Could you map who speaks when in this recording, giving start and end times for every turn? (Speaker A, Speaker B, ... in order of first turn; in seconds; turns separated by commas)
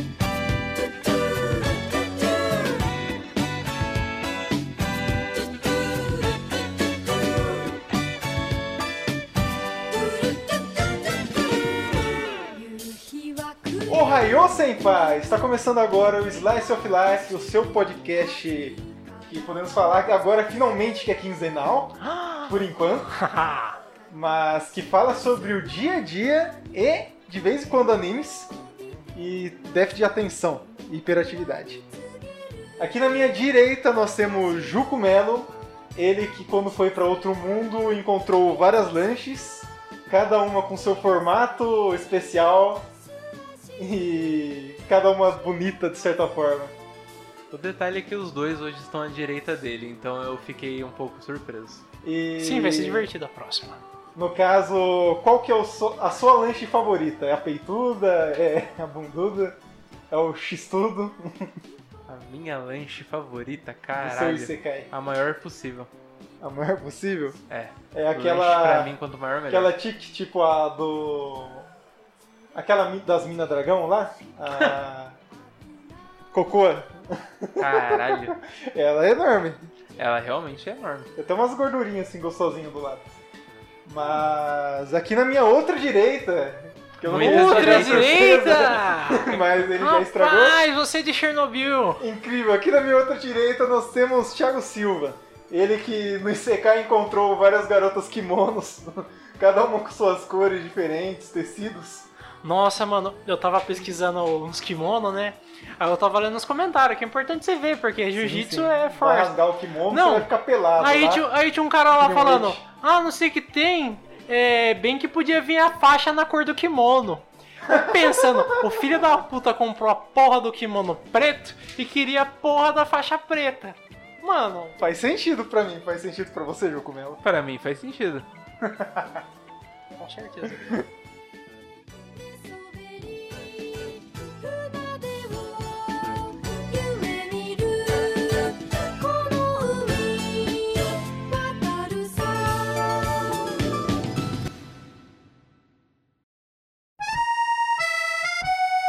Speaker A: 5.4-7.7, Speaker A: 9.9-14.4, Speaker B: 13.9-23.2, Speaker C: 22.0-22.5, Speaker C: 23.1-23.8, Speaker B: 24.1-28.5, Speaker B: 29.1-31.8, Speaker B: 32.8-42.9, Speaker B: 43.8-46.7, Speaker D: 47.5-51.8, Speaker B: 52.0-53.1, Speaker C: 52.4-53.8, Speaker B: 54.1-59.6, Speaker B: 60.1-61.5, Speaker D: 62.1-65.9, Speaker B: 64.0-64.9, Speaker B: 66.4-67.4, Speaker D: 67.5-69.7, Speaker B: 67.9-68.9, Speaker B: 69.5-71.7, Speaker B: 72.5-75.2, Speaker B: 76.3-79.6, Speaker D: 77.6-78.4, Speaker D: 80.0-81.1, Speaker B: 81.2-83.1, Speaker B: 83.8-90.6, Speaker D: 87.0-88.2, Speaker C: 87.2-92.0, Speaker B: 92.0-102.1, Speaker C: 102.4-109.3, Speaker B: 108.2-111.2, Speaker C: 109.9-124.8, Speaker B: 112.0-112.6, Speaker B: 117.7-118.8, Speaker B: 124.8-127.2, Speaker D: 127.2-128.2, Speaker B: 128.6-129.2, Speaker C: 130.0-130.8, Speaker B: 130.5-130.8, Speaker A: 132.2-143.8